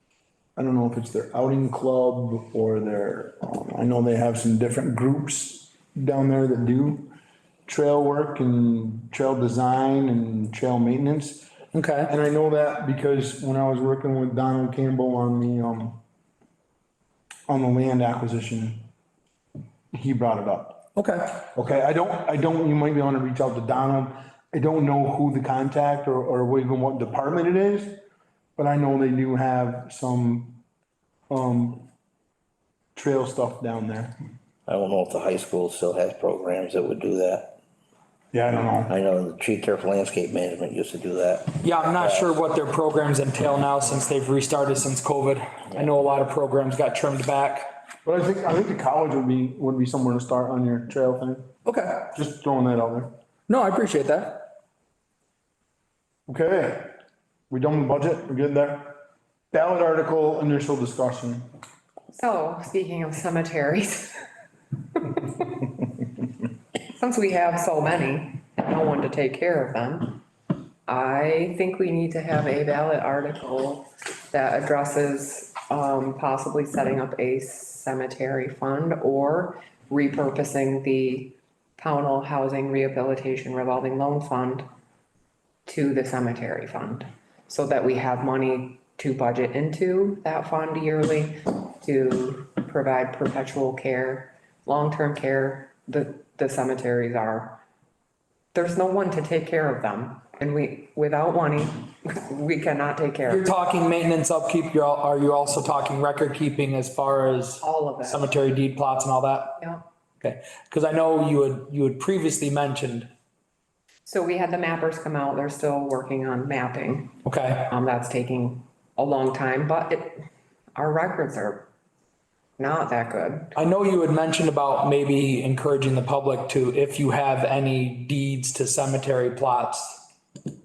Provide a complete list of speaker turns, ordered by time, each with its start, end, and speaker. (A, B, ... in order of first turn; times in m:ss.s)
0:00.6-0:07.1 A
0:07.6-0:11.5 A
0:11.7-0:12.1 B
0:12.1-0:16.0 A
0:17.5-0:18.8 A
0:19.9-0:20.8 A
0:21.0-0:21.4 B
0:21.5-0:28.0 A
0:28.6-0:30.6 A
0:31.3-0:31.8 A
0:33.0-0:34.1 A
0:34.7-0:37.5 C
0:38.3-0:38.9 A
0:38.9-0:42.3 C
0:41.6-0:47.6 B
0:48.0-0:51.5 A
0:51.6-0:52.1 B
0:52.1-0:53.1 A
0:53.5-0:54.5 B
0:56.3-0:56.9 A
0:57.5-0:59.0 A
0:59.5-1:01.4 A
1:02.1-1:04.2 D
1:05.0-1:05.5 D
1:06.9-1:10.2 D
1:10.8-1:24.6 D
1:25.6-1:37.6 D
1:38.5-1:43.5 D
1:43.3-1:49.6 B
1:47.6-1:48.3 D
1:50.2-1:53.1 B
1:54.0-1:57.2 D
1:57.2-1:57.7 B
1:57.7-2:00.2 D
2:00.7-2:01.7 D
2:02.6-2:03.5 D
2:03.5-2:10.0 B